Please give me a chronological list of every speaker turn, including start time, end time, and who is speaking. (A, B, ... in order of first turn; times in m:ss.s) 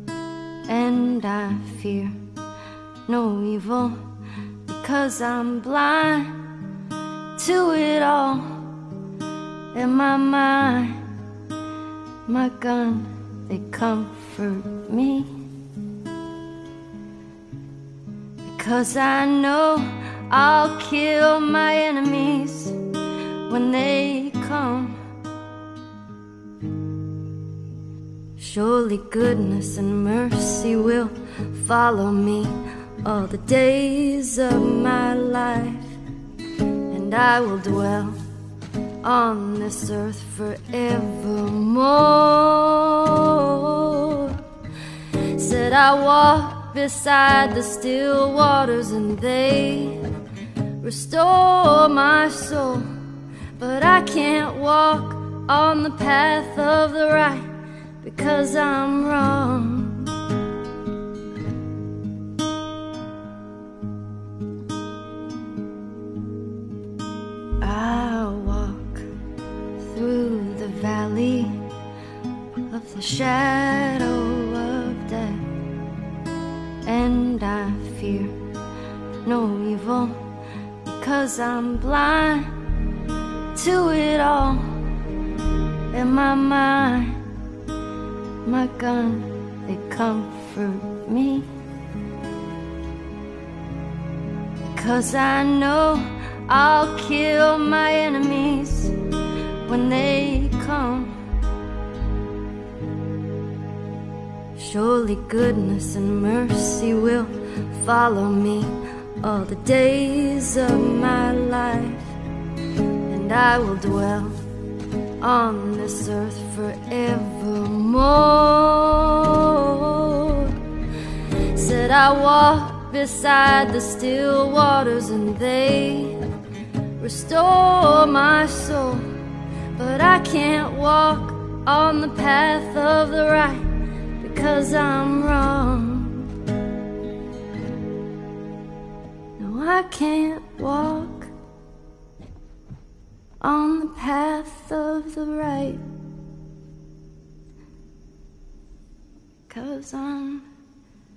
0:00.7-0:02.1 A
0:03.1-0:04.0 A
0:04.7-0:06.4 A
0:07.4-0:08.5 A
0:09.7-0:11.0 A
0:12.3-0:15.3 A
0:18.4-0:22.8 A
0:23.5-0:25.0 A
0:28.4-0:35.9 A
0:36.9-0:38.2 A
0:39.0-0:44.4 A
0:45.3-0:50.0 A
0:50.8-0:52.9 A
0:53.6-0:57.5 A
0:58.0-1:00.1 A
1:07.6-1:09.1 A
1:09.8-1:11.6 A
1:12.7-1:15.4 A
1:16.8-1:18.4 A
1:19.2-1:20.1 A
1:20.8-1:22.5 A
1:23.5-1:24.6 A
1:25.9-1:27.2 A
1:28.4-1:31.5 A
1:34.8-1:38.9 A
1:39.7-1:41.1 A
1:44.6-1:52.1 A
1:53.1-1:54.4 A
1:55.2-2:00.5 A
2:01.5-2:06.2 A
2:07.0-2:09.0 A
2:09.8-2:13.7 A
2:14.2-2:16.3 A
2:19.4-2:21.3 A
2:23.4-2:25.8 A
2:29.5-2:30.4 A